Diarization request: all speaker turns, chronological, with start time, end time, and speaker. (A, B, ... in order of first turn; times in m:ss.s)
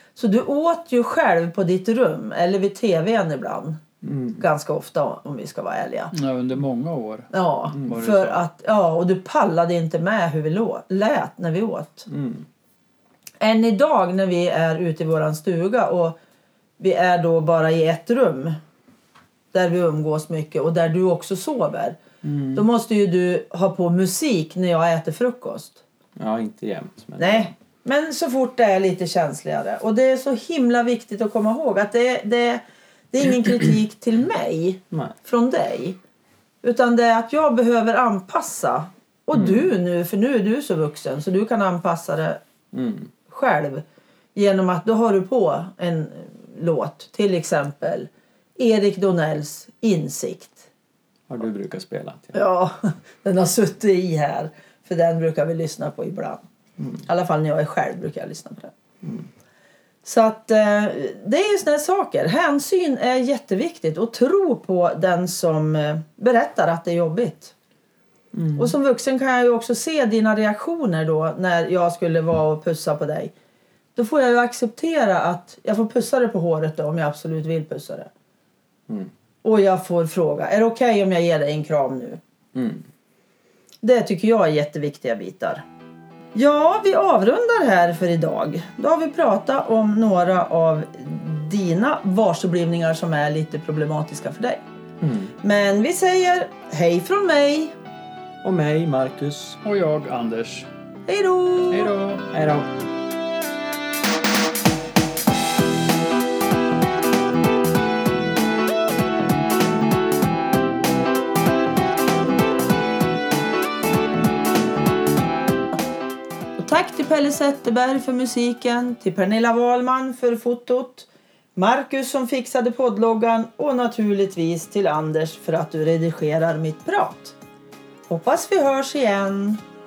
0:00.2-0:03.8 A
0:04.0-0:04.4 B
0:04.4-0:06.1 A
0:06.1-0:08.4 C
0:07.3-0:12.1 A
0:07.7-0:08.0 B
0:12.1-0:12.5 B
0:13.4-0:16.2 A
0:16.8-0:18.6 A
0:19.5-0:22.0 A
0:22.2-0:22.7 B
0:22.5-0:25.8 A
0:26.2-0:27.5 B
0:27.2-0:36.0 A
0:36.6-0:42.4 A
0:39.3-0:39.7 B
0:42.7-0:43.1 B
0:43.3-0:43.8 A
0:44.3-0:50.7 A
0:51.3-0:52.4 B
0:52.3-0:56.4 A
0:56.8-0:57.0 B
0:57.0-0:58.7 A
0:59.0-0:59.3 B
1:00.0-1:07.5 A
1:08.3-1:08.7 B
1:08.6-1:13.3 A
1:13.9-1:18.1 A
1:19.4-1:22.2 A
1:22.5-1:22.8 B
1:23.8-1:25.6 A
1:26.3-1:34.6 A
1:35.0-1:35.3 B
1:35.4-1:37.7 A
1:38.4-1:39.6 B
1:39.6-1:40.7 C
1:41.1-1:41.9 A
1:41.7-1:42.3 C
1:42.3-1:42.7 B
1:56.6-2:07.4 A
2:08.1-2:09.6 A